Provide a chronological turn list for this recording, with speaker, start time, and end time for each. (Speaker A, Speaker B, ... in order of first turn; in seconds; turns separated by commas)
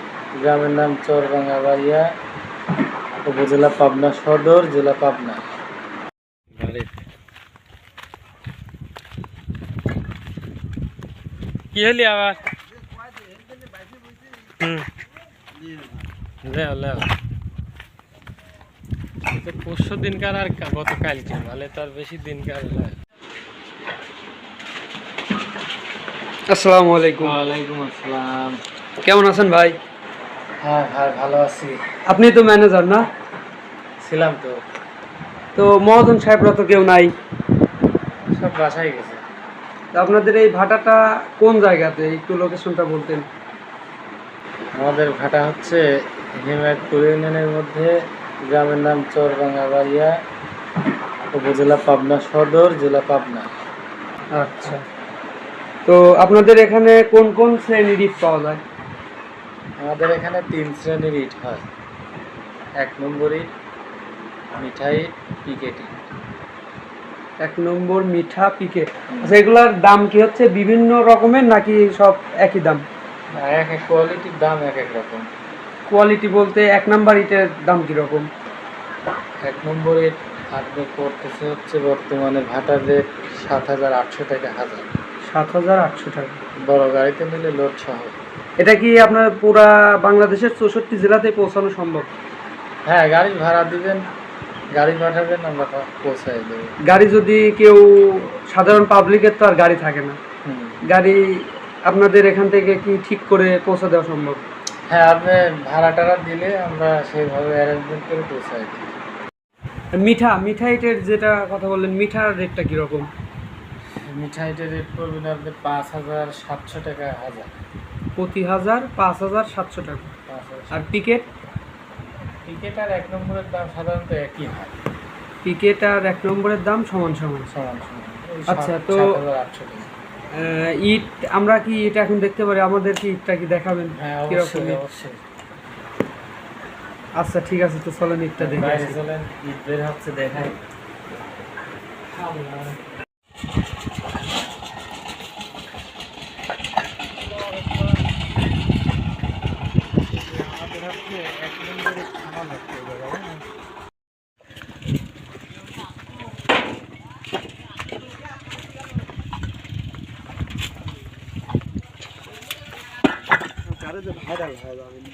Speaker A: 0.4-2.0, Speaker A: 3.2-5.4, Speaker A: 6.5-7.0, Speaker A: 11.7-12.4, Speaker A: 14.6-14.9, Speaker A: 16.4-17.1, Speaker A: 19.3-23.0, Speaker B: 26.5-27.3, Speaker A: 27.2-28.6, Speaker B: 29.0-29.8, Speaker A: 30.6-31.8, Speaker B: 32.1-33.1, Speaker A: 34.0-34.6, Speaker B: 35.5-37.1, Speaker A: 38.3-39.2, Speaker B: 39.9-43.3, Speaker A: 44.7-45.8, Speaker A: 46.4-47.9, Speaker A: 48.5-50.1, Speaker A: 51.3-53.5, Speaker B: 54.3-54.8, Speaker B: 55.9-58.6, Speaker A: 59.8-61.6, Speaker A: 62.8-63.5, Speaker A: 64.6-65.9, Speaker B: 67.4-72.8, Speaker A: 69.1-69.4, Speaker A: 73.3-75.3, Speaker B: 75.9-78.3, Speaker A: 79.4-84.9, Speaker B: 85.2-86.4, Speaker A: 86.6-88.2, Speaker B: 88.6-92.1, Speaker A: 92.9-94.0, Speaker A: 94.7-96.7, Speaker B: 96.9-100.2, Speaker A: 100.4-100.8, Speaker B: 100.9-101.2, Speaker B: 101.9-104.4, Speaker A: 104.9-108.9, Speaker B: 110.0-113.1, Speaker A: 114.0-117.6, Speaker B: 118.2-120.1, Speaker A: 120.3-121.0, Speaker B: 120.7-121.2, Speaker A: 122.5-124.8, Speaker B: 125.4-127.5, Speaker A: 127.5-129.9, Speaker B: 128.5-129.2, Speaker B: 130.3-134.8, Speaker A: 133.9-135.2, Speaker B: 137.2-139.0, Speaker A: 138.4-140.6, Speaker A: 142.2-142.8